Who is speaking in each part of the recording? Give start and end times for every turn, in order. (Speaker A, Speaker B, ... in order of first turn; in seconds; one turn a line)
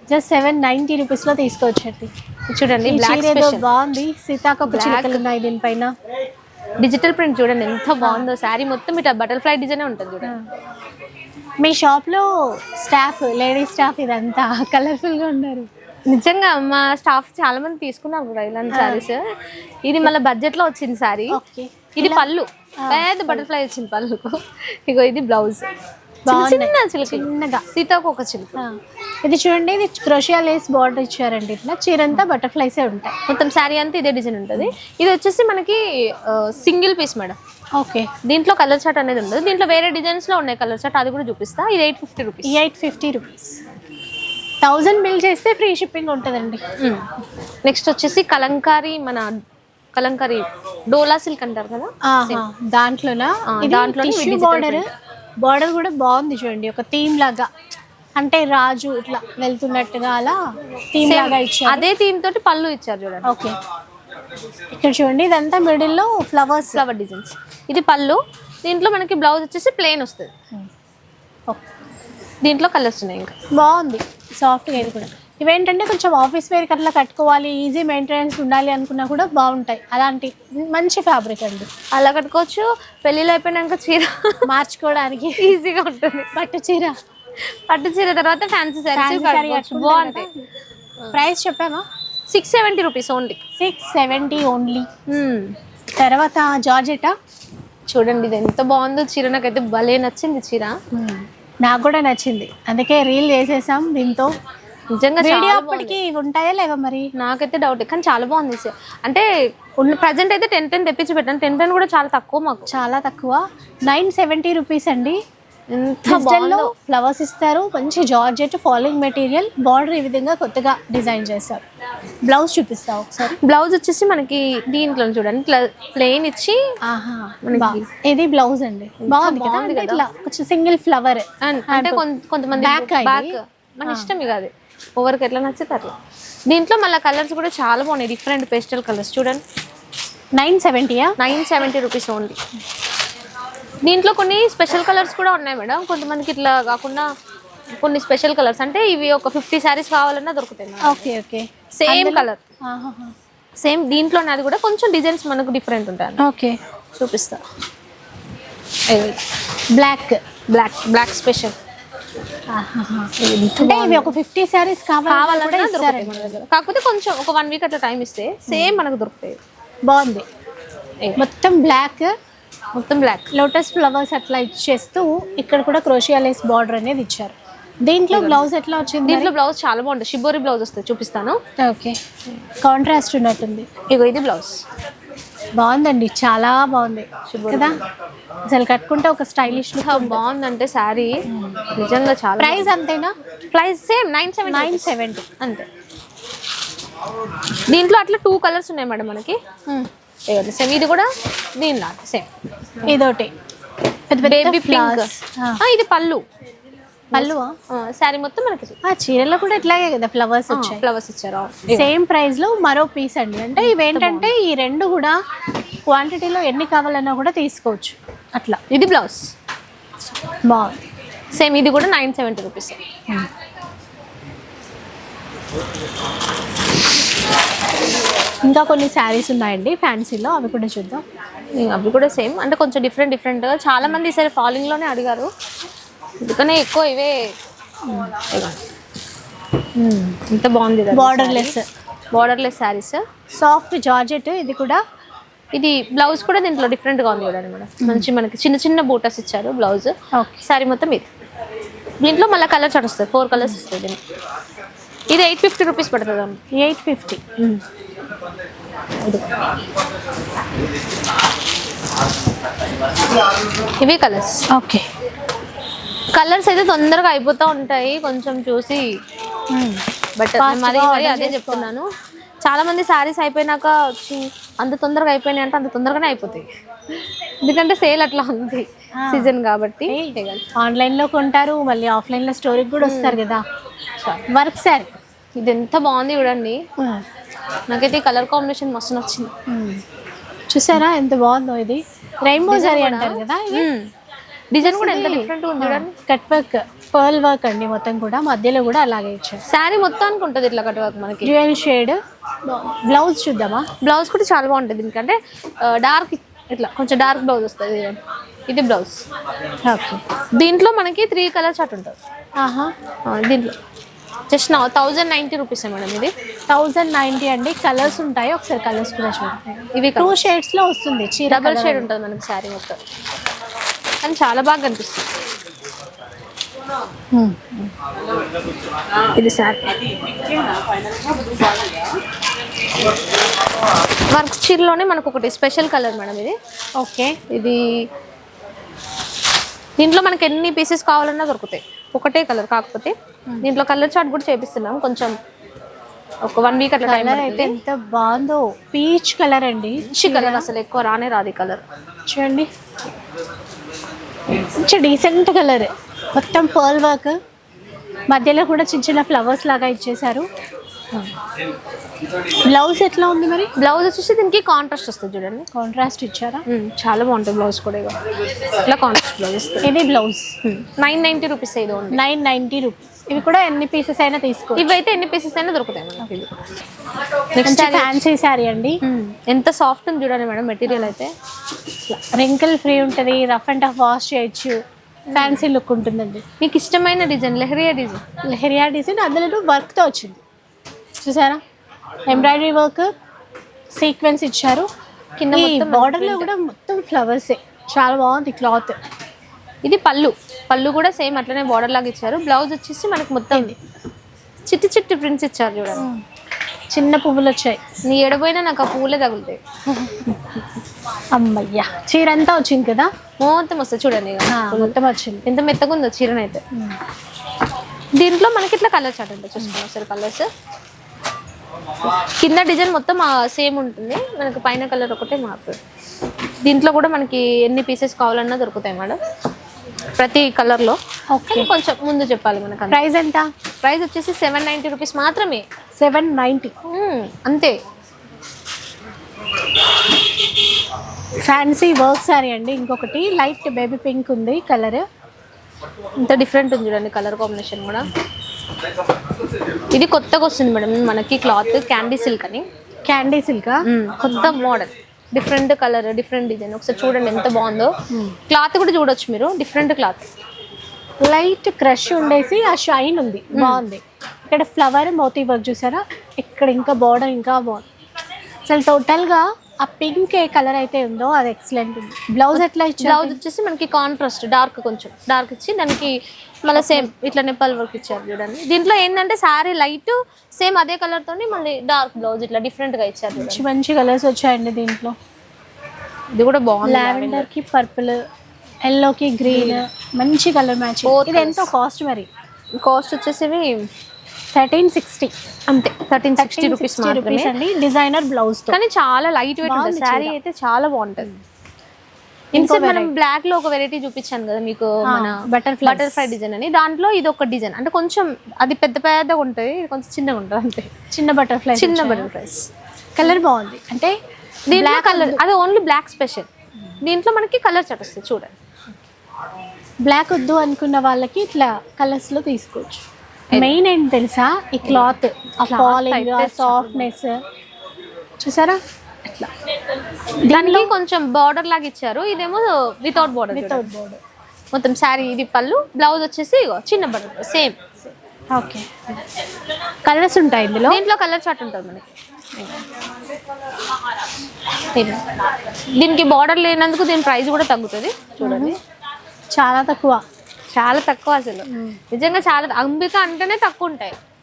Speaker A: 0.1-2.1
Speaker B: 2.5-3.6
Speaker A: 2.8-5.9
Speaker B: 4.7-5.2
Speaker B: 6.8-10.3
Speaker A: 8.0-8.3
Speaker A: 11.6-15.7
Speaker B: 16.1-19.2
Speaker A: 18.7-19.1
Speaker B: 19.8-21.4
Speaker A: 21.3-22.3
Speaker B: 22.0-25.7
Speaker A: 22.8-23.4
Speaker A: 26.2-27.6
Speaker B: 26.3-28.6
Speaker A: 28.6-33.1
Speaker B: 33.3-37.4
Speaker A: 37.8-38.1
Speaker B: 38.2-42.6
Speaker A: 42.4-43.6
Speaker A: 44.6-46.6
Speaker B: 46.8-47.1
Speaker B: 47.6-49.3
Speaker B: 49.9-52.4
Speaker A: 52.0-54.9
Speaker B: 53.5-54.8
Speaker A: 55.4-57.5
Speaker A: 58.2-61.9
Speaker B: 61.0-63.4
Speaker A: 63.2-63.6
Speaker A: 64.7-66.8
Speaker B: 66.7-70.3
Speaker B: 72.4-73.3
Speaker A: 73.5-81.7
Speaker B: 81.9-84.4
Speaker A: 84.5-85.6
Speaker B: 85.4-86.3
Speaker A: 86.3-86.9
Speaker B: 87.4-90.3
Speaker A: 88.9-90.4
Speaker A: 91.1-91.8
Speaker B: 92.3-93.4
Speaker A: 93.6-94.9
Speaker B: 95.1-95.6
Speaker A: 96.0-97.1
Speaker B: 97.9-100.8
Speaker A: 100.9-104.3
Speaker B: 104.9-106.0
Speaker A: 105.2-107.1
Speaker B: 107.1-109.2
Speaker B: 109.8-112.7
Speaker A: 112.7-115.2
Speaker B: 115.7-116.7
Speaker A: 116.1-121.6
Speaker A: 122.2-123.4
Speaker B: 123.4-126.6
Speaker A: 126.8-132.0
Speaker B: 127.4-127.8
Speaker B: 129.0-130.0
Speaker B: 131.4-135.9
Speaker A: 132.5-133.3
Speaker B: 136.5-139.4
Speaker A: 140.3-141.2
Speaker B: 141.2-142.4
Speaker B: 143.8-147.1
Speaker B: 147.8-151.1
Speaker A: 150.8-153.1
Speaker B: 151.8-152.4
Speaker B: 153.6-156.2
Speaker A: 156.2-156.6
Speaker B: 156.9-157.4
Speaker B: 158.9-159.2
Speaker A: 159.7-160.2
Speaker B: 160.5-161.6
Speaker A: 162.5-166.3
Speaker B: 163.2-164.2
Speaker B: 165.1-169.4
Speaker A: 168.5-168.8
Speaker A: 169.8-170.2
Speaker A: 171.2-172.1
Speaker B: 172.7-173.3
Speaker A: 173.3-177.3
Speaker A: 177.8-179.3
Speaker B: 178.1-178.4
Speaker B: 179.0-181.4
Speaker A: 181.6-182.0
Speaker A: 182.6-183.7
Speaker B: 183.9-184.6
Speaker A: 185.6-187.8
Speaker B: 187.3-187.8
Speaker A: 188.5-190.2
Speaker B: 189.5-192.7
Speaker A: 191.3-191.6
Speaker A: 192.4-193.1
Speaker B: 193.5-195.7
Speaker A: 194.5-195.3
Speaker B: 197.7-199.4
Speaker B: 200.3-202.3
Speaker A: 202.8-203.3
Speaker A: 204.1-205.6
Speaker B: 204.2-205.1
Speaker B: 205.6-206.2
Speaker B: 207.1-208.8
Speaker A: 207.1-207.6
Speaker A: 208.8-210.8
Speaker B: 210.5-211.9
Speaker A: 211.7-215.2
Speaker B: 213.6-214.3
Speaker A: 215.9-218.6
Speaker B: 218.7-219.3
Speaker A: 220.4-220.8
Speaker B: 221.3-222.8
Speaker A: 228.4-231.0
Speaker B: 231.6-235.3
Speaker B: 236.2-237.3
Speaker A: 237.8-238.1
Speaker B: 238.0-238.6
Speaker A: 239.8-240.2
Speaker B: 240.3-241.5
Speaker A: 240.9-241.6
Speaker B: 242.1-243.0
Speaker A: 243.3-244.8
Speaker B: 245.5-251.1
Speaker A: 247.8-248.1
Speaker A: 250.1-250.5
Speaker B: 252.0-254.0
Speaker B: 255.1-256.4
Speaker A: 256.5-257.2
Speaker B: 257.4-257.6
Speaker B: 259.0-259.4
Speaker B: 263.8-264.4
Speaker A: 264.5-264.9
Speaker B: 266.1-268.9
Speaker A: 269.5-269.8
Speaker B: 270.2-271.9
Speaker A: 270.4-271.7
Speaker B: 272.4-280.4
Speaker A: 279.0-279.3
Speaker A: 279.9-283.4
Speaker B: 282.8-283.2
Speaker B: 284.0-284.2
Speaker A: 284.3-285.0
Speaker B: 285.4-286.6
Speaker A: 286.8-287.0
Speaker B: 287.7-289.3
Speaker A: 289.5-289.8
Speaker A: 290.5-293.7
Speaker B: 292.4-293.9
Speaker B: 294.5-295.9
Speaker A: 294.6-299.4
Speaker B: 299.5-301.3
Speaker A: 301.2-303.7
Speaker B: 303.8-309.0
Speaker A: 309.6-310.0
Speaker B: 310.3-312.0
Speaker A: 312.4-312.7
Speaker B: 313.1-313.5
Speaker B: 314.3-316.1
Speaker A: 316.5-321.9
Speaker B: 319.7-320.3
Speaker B: 321.3-322.8
Speaker B: 324.0-325.1
Speaker A: 327.1-327.7
Speaker B: 329.1-329.8
Speaker B: 334.1-336.4
Speaker A: 336.8-337.2
Speaker B: 337.3-337.9
Speaker B: 339.8-345.1
Speaker B: 346.2-347.6
Speaker A: 346.8-350.5
Speaker B: 349.8-351.6
Speaker A: 352.1-352.5
Speaker A: 354.3-357.2
Speaker A: 358.1-360.3
Speaker A: 362.4-363.5
Speaker B: 363.6-365.5
Speaker A: 365.5-366.4
Speaker B: 366.5-368.0
Speaker B: 368.6-369.7
Speaker A: 369.6-370.3
Speaker B: 370.4-372.0
Speaker A: 371.9-374.7
Speaker B: 374.6-376.3
Speaker B: 377.3-377.9
Speaker A: 377.4-378.8
Speaker B: 378.8-381.1
Speaker A: 381.9-386.2
Speaker B: 385.1-385.4
Speaker B: 386.4-388.0
Speaker A: 388.2-390.2
Speaker A: 391.0-391.4
Speaker A: 392.1-392.9
Speaker A: 393.7-394.7
Speaker B: 395.2-396.3
Speaker A: 395.3-398.8
Speaker B: 399.6-403.5
Speaker A: 403.3-403.6
Speaker B: 404.4-405.9
Speaker A: 405.8-406.0
Speaker A: 406.7-407.7
Speaker B: 407.8-409.4
Speaker A: 409.7-410.2
Speaker A: 411.1-412.9
Speaker B: 413.2-416.4
Speaker A: 414.3-415.2
Speaker B: 417.9-420.3
Speaker B: 421.8-425.6
Speaker B: 426.4-429.0
Speaker B: 430.0-432.8
Speaker A: 431.1-431.5
Speaker A: 432.7-433.3
Speaker B: 433.6-435.4
Speaker A: 435.8-436.5
Speaker B: 436.6-437.5
Speaker A: 441.2-444.8
Speaker B: 446.0-447.9
Speaker B: 449.7-452.4
Speaker A: 452.9-454.3
Speaker B: 453.6-457.7
Speaker A: 457.9-458.2
Speaker B: 458.3-460.1
Speaker A: 461.0-467.6
Speaker B: 463.3-463.6
Speaker A: 468.4-473.2
Speaker B: 472.3-483.4
Speaker A: 476.5-476.9
Speaker A: 483.1-484.9
Speaker B: 486.1-487.3
Speaker A: 486.6-488.0
Speaker A: 488.6-492.1
Speaker B: 489.2-489.6
Speaker B: 490.8-491.5
Speaker B: 492.6-493.7
Speaker A: 494.3-495.1
Speaker B: 495.5-497.3
Speaker A: 496.1-498.6
Speaker B: 498.5-501.1
Speaker A: 499.4-500.1
Speaker A: 502.3-502.9
Speaker B: 502.3-510.7
Speaker A: 504.8-506.1
Speaker A: 510.9-512.1
Speaker B: 511.5-512.5
Speaker A: 513.0-513.9
Speaker B: 514.5-516.3
Speaker A: 514.5-515.2
Speaker B: 516.8-518.3
Speaker A: 519.8-522.8
Speaker B: 523.3-523.6
Speaker A: 523.3-527.2
Speaker B: 524.6-526.9
Speaker A: 528.2-529.3
Speaker A: 530.2-530.7
Speaker B: 530.3-533.7
Speaker A: 533.3-534.0
Speaker B: 534.5-537.5
Speaker A: 538.3-538.8
Speaker A: 539.8-540.8
Speaker B: 540.7-542.7
Speaker B: 544.7-545.1
Speaker B: 545.7-548.6
Speaker A: 548.2-548.6
Speaker A: 549.3-550.0
Speaker B: 550.5-554.0
Speaker A: 551.5-551.8